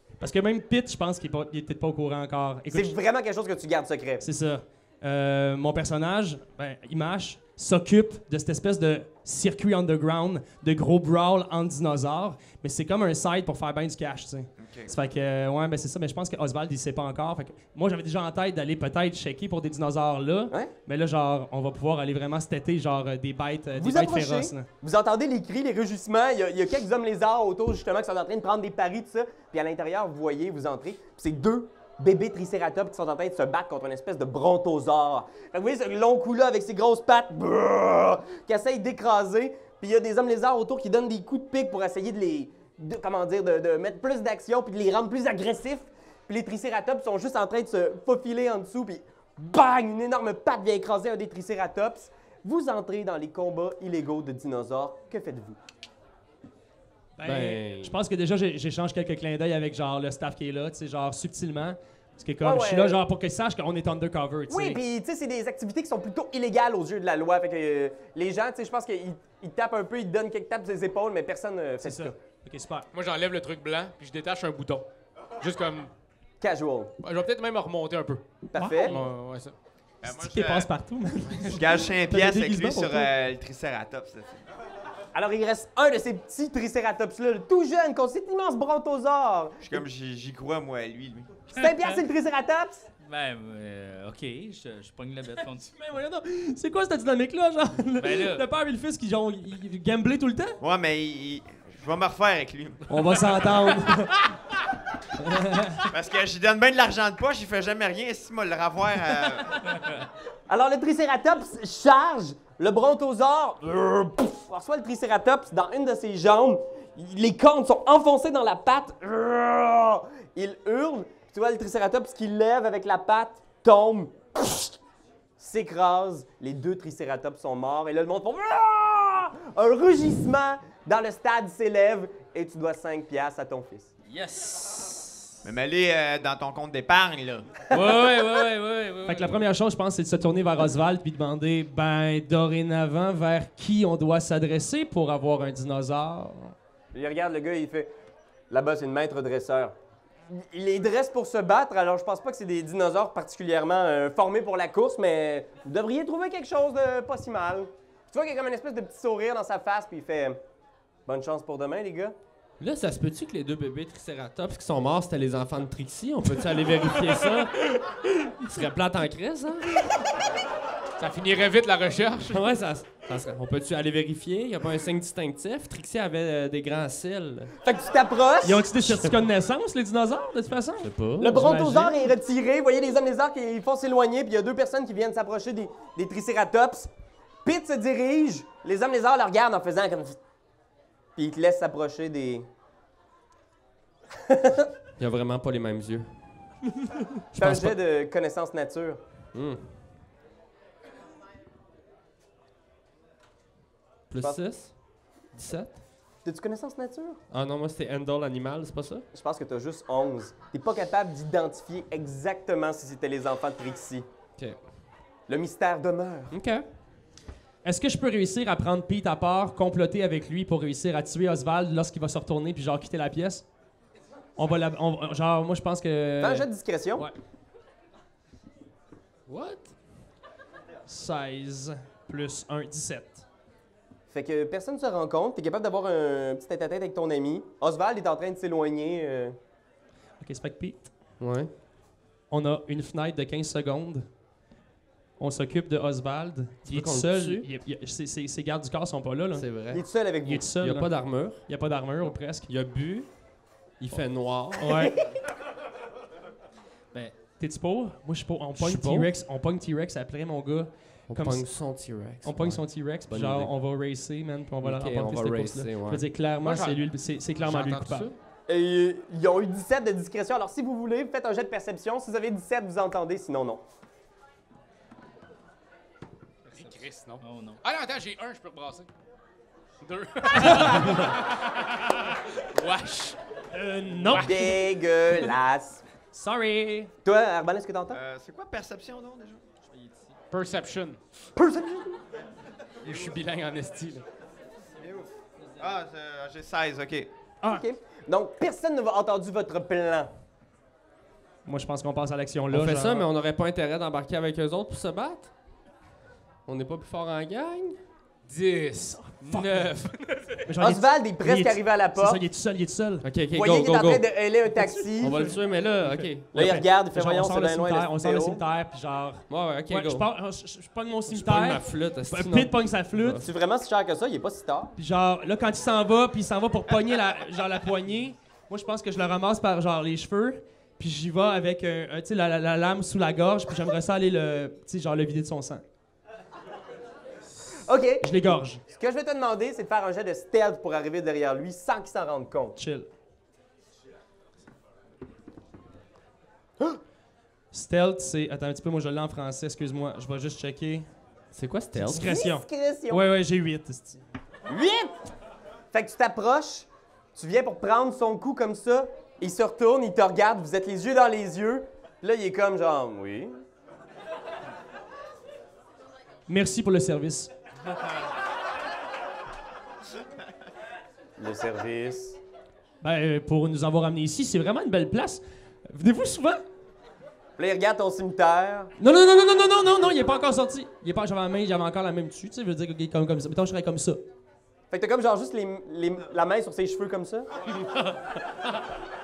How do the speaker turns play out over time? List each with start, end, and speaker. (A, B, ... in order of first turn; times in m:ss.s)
0:00.2-0:03.0 A
0:02.7-0:04.2 B
0:04.2-0:24.7 A
0:14.6-0:14.9 C
0:23.8-0:55.6 B
0:57.2-1:04.8 A
0:57.2-0:58.0 D
1:02.4-1:03.0 B
1:04.5-1:12.1 B
1:11.8-1:12.9 A
1:12.9-1:14.9 E
1:15.4-1:15.9 E
1:16.4-1:16.9 B
1:17.0-1:18.2 E
1:18.5-1:18.9 B
1:18.6-1:19.1 A
1:18.8-1:19.5 E
1:20.0-1:20.7 C
1:20.0-1:23.1 A
1:21.4-1:24.4 C
1:25.1-1:29.8 B
1:29.6-1:31.4 C
1:31.5-1:32.8 B
1:31.6-1:32.0 F
1:33.0-1:35.7 F
1:35.8-1:40.6 A
1:38.0-1:38.4 F
1:40.6-1:43.6 C
1:42.9-1:44.3 A
1:45.2-1:45.9 A
1:45.9-1:49.6 C
1:50.5-2:04.7 B
2:05.4-2:13.9 B
2:14.1-2:15.4 F
2:15.4-2:17.5 C
2:17.7-2:19.4 F
2:19.0-2:26.5 A
2:26.9-2:27.9 B
2:28.5-2:29.7 B
2:30.3-2:40.4 B
2:41.0-2:42.2 B
2:42.6-2:47.7 D
2:48.4-2:49.8 D
2:51.0-2:52.4 E
2:52.2-2:57.5 D
2:57.6-2:58.6 B
2:58.4-3:02.0 A
3:00.8-3:01.5 D
3:01.2-3:06.9 B
3:07.4-3:10.2 B
3:11.2-3:12.5 B
3:14.2-3:14.7 B
3:15.0-3:16.1 D
3:17.3-3:17.8 D
3:17.4-3:19.0 B
3:19.3-3:19.7 D
3:24.1-3:24.7 D
3:25.3-3:25.8 D
3:26.2-3:27.2 B
3:27.3-3:29.1 D
3:29.1-3:34.0 B
3:35.3-3:36.3 B
3:36.3-3:36.6 D
3:37.6-3:43.4 A
3:44.4-3:47.1 A
3:46.2-3:47.1 B
3:49.3-3:49.7 D
3:50.9-3:53.2 A
3:54.1-3:59.4 B
4:00.2-4:00.9 A
4:01.2-4:01.5 D
4:02.3-4:04.0 A
4:05.2-4:09.5 A
4:06.6-4:07.5 D
4:09.3-4:09.8 D
4:09.7-4:10.5 B
4:10.2-4:10.9 A
4:10.6-4:11.4 D
4:11.4-4:12.5 A
4:12.5-4:13.1 D
4:13.8-4:15.0 D
4:14.6-4:15.0 A
4:17.4-4:21.5 A
4:18.6-4:19.1 D
4:21.1-4:23.5 D
4:22.2-4:28.1 A
4:24.6-4:26.0 D
4:26.4-4:26.8 E
4:27.4-4:28.1 E
4:28.5-4:33.6 B
4:36.5-4:38.9 E
4:36.5-4:37.6 F
4:39.8-4:43.2 E
4:40.4-4:41.1 A
4:43.5-4:44.6 A
4:44.2-4:45.8 B
4:46.1-4:46.9 A
4:47.0-4:48.0 B
4:47.9-4:49.4 C
4:49.7-4:50.2 F
4:50.3-4:51.0 E
4:51.4-4:52.0 B
4:52.8-4:54.0 E
4:54.8-4:55.1 C
4:55.4-4:55.6 F
4:55.6-4:57.1 C
4:57.4-5:00.1 B
5:01.4-5:03.1 A
5:02.5-5:05.3 D
5:06.4-5:07.8 D
5:08.2-5:10.4 E
5:09.2-5:09.7 A
5:10.5-5:13.0 A
5:10.6-5:12.2 B
5:13.0-5:14.0 D
5:13.3-5:15.3 B
5:14.6-5:15.4 A
5:15.0-5:16.3 D
5:16.2-5:23.2 A
5:16.3-5:18.4 B
5:19.3-5:20.1 D
5:21.0-5:23.3 D
5:23.2-5:24.7 B
5:24.8-5:35.6 A
5:37.6-5:42.6 B
5:38.0-5:38.6 A
5:42.6-5:42.9 A
5:47.5-5:50.9 A
5:51.3-5:52.1 D
5:51.7-5:54.0 A
5:51.9-5:53.0 B
5:54.5-5:54.9 B
5:55.7-6:03.3 B
6:06.3-6:07.3 A
6:11.2-6:12.2 B
6:12.8-6:16.4 A
6:17.4-6:18.7 B
6:18.8-6:24.0 A
6:24.7-6:27.3 B